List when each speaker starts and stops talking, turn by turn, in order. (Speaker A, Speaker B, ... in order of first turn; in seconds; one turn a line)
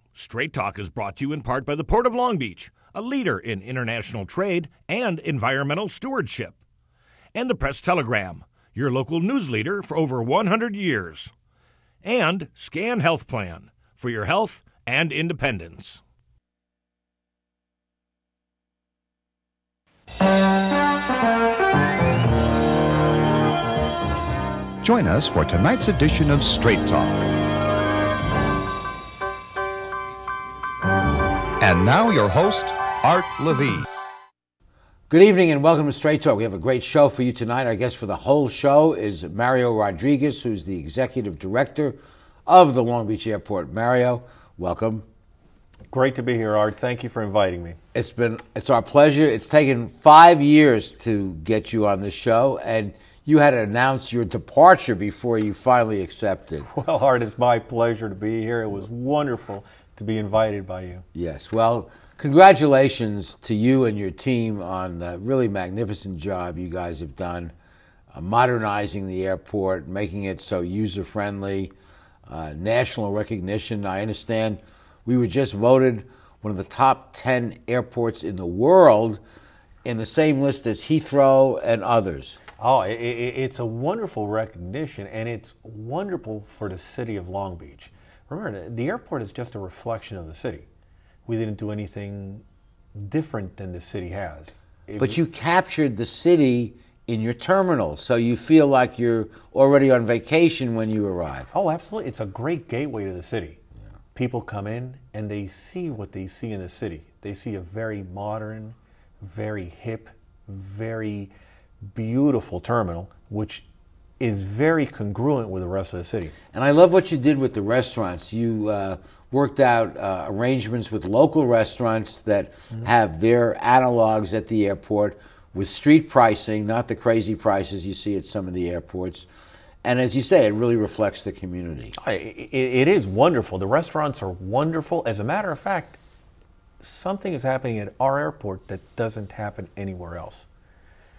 Speaker A: 0.1-6.6
Speaker A: 7.3-11.3
Speaker A: 12.0-16.0
Speaker B: 24.8-27.3
Speaker B: 31.6-33.9
Speaker C: 35.1-45.0
Speaker D: 45.9-47.8
Speaker C: 47.9-56.7
Speaker D: 56.7-61.0
Speaker C: 61.1-67.5
Speaker C: 68.1-71.7
Speaker C: 72.3-79.2
Speaker C: 79.8-82.4
Speaker D: 82.6-90.7
Speaker D: 91.3-92.4
Speaker D: 93.0-95.2
Speaker C: 95.0-101.5
Speaker D: 101.5-103.6
Speaker D: 104.1-111.3
Speaker D: 111.9-113.7
Speaker D: 114.2-116.3
Speaker C: 116.5-129.3
Speaker C: 129.8-131.9
Speaker D: 132.0-136.0
Speaker D: 136.8-140.5